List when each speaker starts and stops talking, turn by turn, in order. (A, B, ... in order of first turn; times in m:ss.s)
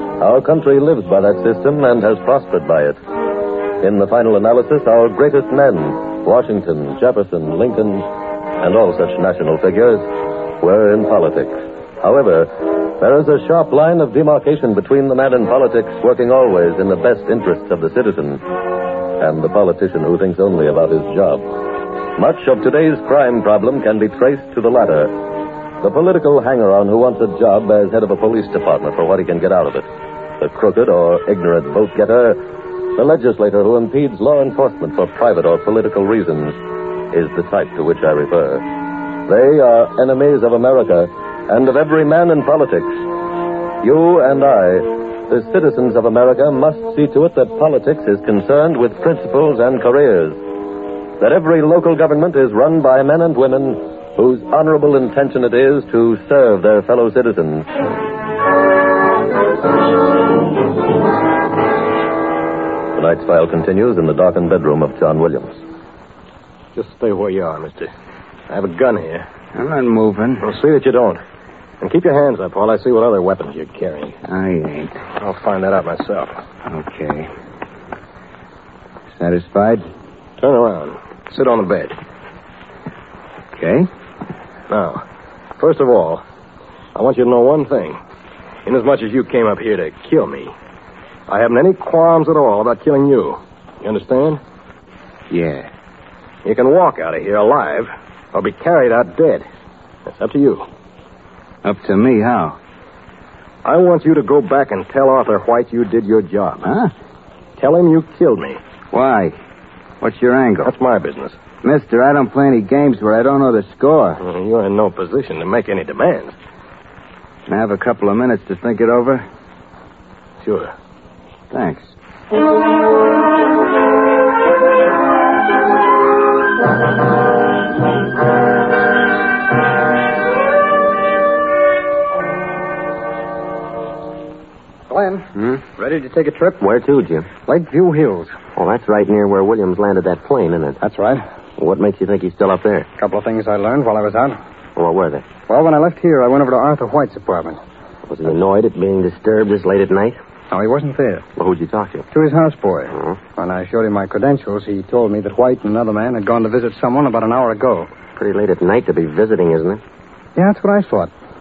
0:00.2-0:03.0 A
0:03.8-0:08.1 A
0:08.6-0:10.1 A
0:10.6-0:18.4 A
0:19.2-0:21.5 A
0:22.2-0:25.2 A
0:25.8-0:29.9 A
0:30.4-0:32.4 A
0:33.0-0:36.6 A
0:37.1-0:38.7 A
0:39.2-0:43.0 A
0:43.8-0:50.4 A
0:51.2-0:57.7 A
1:03.0-1:05.6 A
1:06.7-1:07.9 B
1:08.5-1:09.3 B
1:09.5-1:10.5 C
1:10.4-1:11.2 B
1:11.8-1:14.2 B
1:14.2-1:15.0 C
1:15.2-1:16.4 B
1:16.6-1:17.3 C
1:19.2-1:19.8 C
1:20.4-1:22.0 B
1:23.5-1:23.9 C
1:24.7-1:25.0 B
1:25.6-1:26.2 B
1:26.9-1:28.0 B
1:28.6-1:30.5 B
1:31.3-1:34.4 B
1:35.3-1:35.7 C
1:36.4-1:39.4 B
1:40.1-1:40.7 B
1:41.6-1:42.6 C
1:43.6-1:46.7 B
1:46.6-1:46.9 C
1:47.6-1:48.6 B
1:48.9-1:49.4 C
1:50.0-1:50.7 C
1:50.6-1:51.4 B
1:51.6-1:54.2 C
1:54.2-1:56.3 B
1:57.5-1:59.2 C
2:00.4-2:00.7 B
2:01.5-2:01.9 C
2:14.9-2:16.6 D
2:16.6-2:17.3 E
2:17.4-2:18.3 D
2:18.6-2:20.8 E
2:20.8-2:21.2 D
2:21.6-2:22.9 E
2:23.0-2:24.4 D
2:24.8-2:25.3 E
2:25.5-2:27.6 D
2:28.1-2:30.2 E
2:30.5-2:31.2 D
2:31.4-2:32.1 E
2:32.1-2:37.9 D
2:38.2-2:39.8 E
2:40.4-2:41.1 D